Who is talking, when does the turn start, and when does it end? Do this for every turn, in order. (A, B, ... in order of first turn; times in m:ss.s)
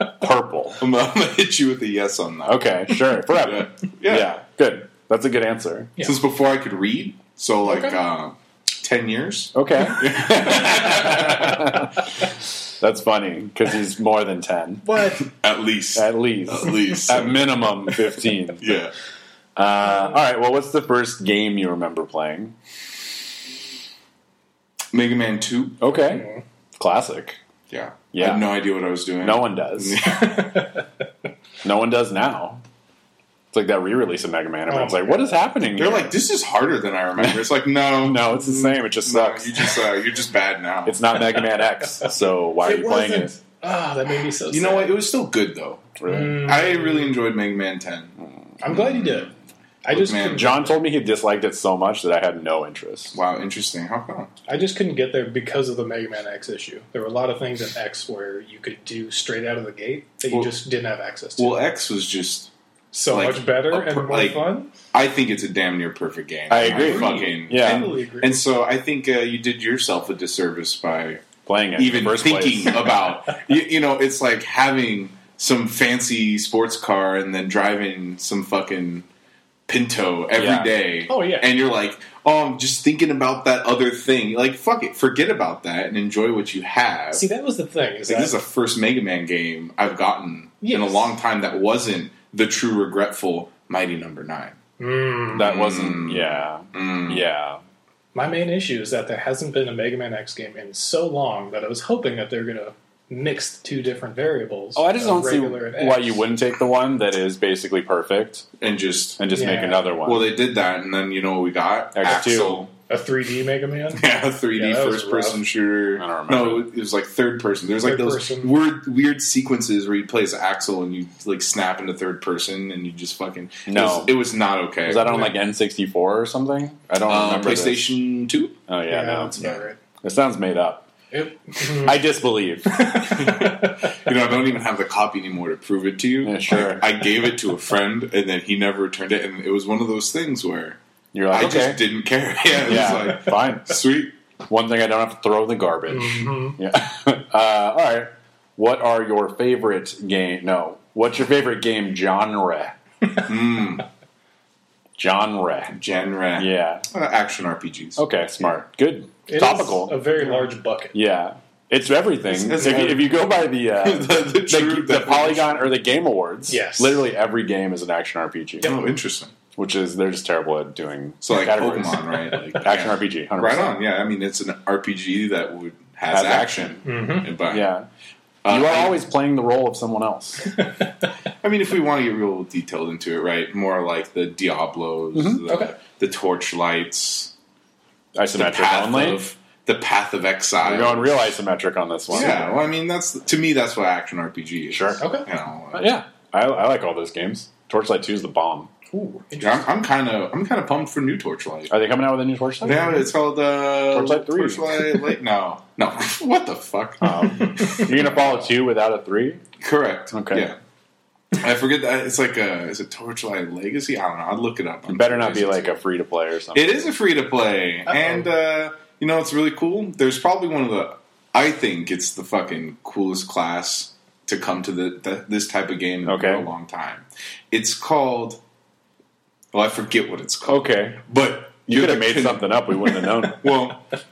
0:00.2-0:00.8 A
0:00.8-0:04.3 B
0:02.5-0:05.9 A
0:06.0-0:11.7 B
0:07.7-0:08.0 C
0:09.5-0:11.9 A
0:12.8-0:14.8 A
0:14.8-0:15.2 C
0:15.2-0:17.6 B
0:16.0-0:18.7 A
0:18.6-0:18.9 B
0:19.6-0:22.6 A
0:24.9-0:25.8 B
0:25.8-0:26.3 A
0:26.0-0:26.4 C
0:26.8-0:27.4 A
0:27.7-0:30.6 B
0:28.1-0:28.5 A
0:29.2-0:30.0 A
0:30.1-0:30.8 C
0:31.6-0:32.6 A
0:33.5-0:36.1 A
0:34.7-0:35.4 C
0:35.7-0:41.1 B
0:38.0-0:39.7 A
0:40.9-0:43.4 A
0:42.6-0:45.0 C
0:44.5-0:48.1 B
0:46.0-0:46.4 A
0:46.1-0:47.2 C
0:48.6-0:49.3 C
0:48.7-0:49.3 B
0:49.8-0:50.8 C
0:49.9-0:50.5 B
0:50.3-0:53.2 A
0:53.1-0:54.3 B
0:54.5-1:01.6 C
1:01.4-1:02.5 B
1:02.9-1:04.7 C
1:03.1-1:11.2 B
1:06.5-1:07.9 A
1:06.6-1:08.4 C
1:11.5-1:13.0 A
1:11.8-1:19.1 B
1:19.7-1:27.2 B
1:20.4-1:20.7 A
1:21.1-1:21.5 C
1:27.1-1:28.4 C
1:28.1-1:34.6 B
1:30.6-1:31.1 C
1:34.8-1:35.5 C
1:35.3-1:37.2 B
1:35.3-1:37.6 A
1:38.1-1:46.2 C
1:44.8-1:48.4 A
1:48.6-1:49.3 B
1:49.2-1:50.3 A
1:49.3-1:49.9 C
1:50.0-1:52.7 B
1:52.0-1:52.7 A
1:52.9-1:55.4 C
1:54.0-2:05.3 B
1:56.0-1:56.7 A
1:57.8-1:58.6 C
2:03.7-2:04.2 A
2:04.8-2:07.9 A
2:05.1-2:05.3 C
2:07.1-2:08.6 B
2:08.7-2:09.4 A
2:08.9-2:09.8 C
2:10.0-2:10.9 A
2:11.1-2:12.0 C
2:11.6-2:13.0 A
2:12.8-2:13.9 C
2:13.0-2:20.8 B
2:16.2-2:16.9 A
2:21.1-2:21.8 A
2:21.3-2:24.2 B
2:22.6-2:23.8 A
2:24.5-2:32.8 A
2:25.9-2:26.6 C
2:33.2-2:33.8 B
2:35.0-2:35.8 A
2:35.7-2:38.0 B
2:36.4-2:36.8 A
2:38.0-2:40.0 A
2:39.3-2:41.0 C
2:40.9-2:48.7 A
2:42.3-2:45.7 B
2:46.5-2:47.1 C
2:48.6-2:49.3 B
2:49.6-2:53.8 A
2:51.2-2:57.7 B
2:56.1-2:56.9 A
2:56.8-2:57.3 C
2:57.5-2:57.9 A
2:58.4-2:59.0 B
2:58.5-3:00.6 A
3:01.4-3:07.3 B
3:05.1-3:05.4 A
3:05.5-3:05.7 C
3:08.2-3:09.3 A
3:08.3-3:11.3 B
3:10.6-3:12.6 A
3:12.1-3:15.9 B
3:14.7-3:15.0 A
3:15.0-3:15.3 C
3:15.7-3:18.7 A
3:18.9-3:19.8 C
3:19.4-3:21.7 B
3:21.7-3:23.0 A
3:22.6-3:22.9 C
3:22.6-3:28.5 B
3:23.9-3:25.0 A
3:27.0-3:29.4 A
3:29.6-3:30.6 B
3:30.1-3:30.5 A
3:31.3-3:35.8 B
3:34.9-3:36.9 A
3:36.6-3:48.4 B
3:46.1-3:46.5 A
3:49.5-3:53.9 B
3:50.5-3:51.0 A
3:51.7-3:53.5 A